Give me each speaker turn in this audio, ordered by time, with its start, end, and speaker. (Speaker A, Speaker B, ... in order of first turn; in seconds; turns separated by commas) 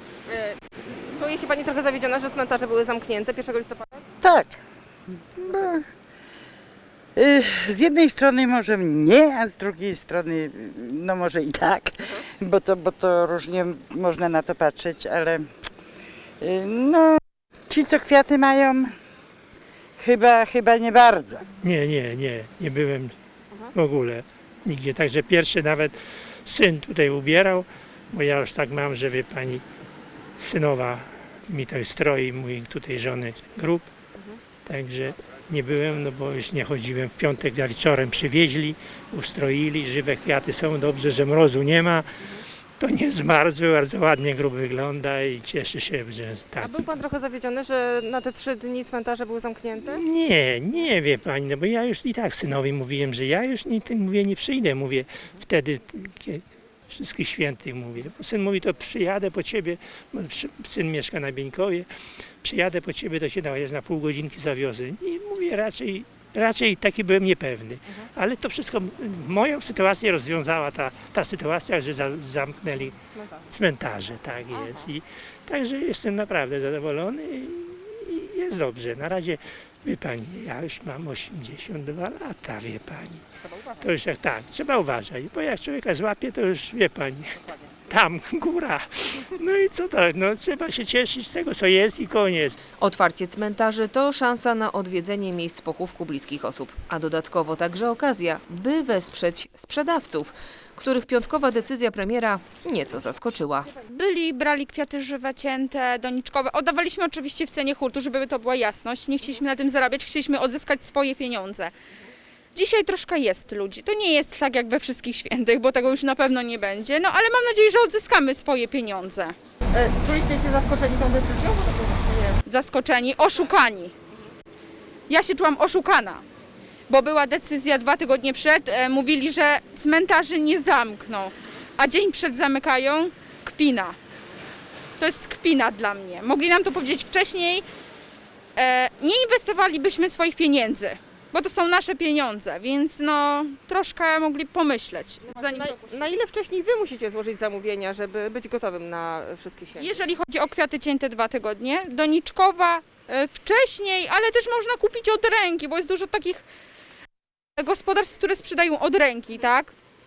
Speaker A: 0.3-4.0, Speaker B: 4.2-4.5, Speaker B: 5.3-5.8, Speaker B: 7.2-15.4, Speaker B: 16.4-18.9, Speaker B: 20.0-21.4, Speaker C: 21.6-23.1, Speaker C: 23.7-25.9, Speaker C: 26.4-29.6, Speaker C: 30.4-33.9, Speaker C: 34.6-42.1, Speaker C: 42.8-46.7, Speaker A: 46.6-50.0, Speaker C: 49.8-61.9, Speaker C: 62.4-73.0, Speaker A: 73.1-73.4, Speaker C: 73.5-83.2, Speaker A: 74.5-74.8, Speaker A: 83.5-83.7, Speaker C: 83.8-92.6, Speaker D: 92.8-103.7, Speaker E: 103.8-111.7, Speaker E: 112.5-119.3, Speaker A: 119.7-122.3, Speaker E: 122.4-123.9, Speaker E: 125.1-126.2, Speaker E: 126.9-133.9, Speaker E: 135.0-137.6, Speaker E: 138.6-145.8, Speaker A: 145.3-150.0, Speaker E: 149.8-156.4, Speaker E: 157.6-159.7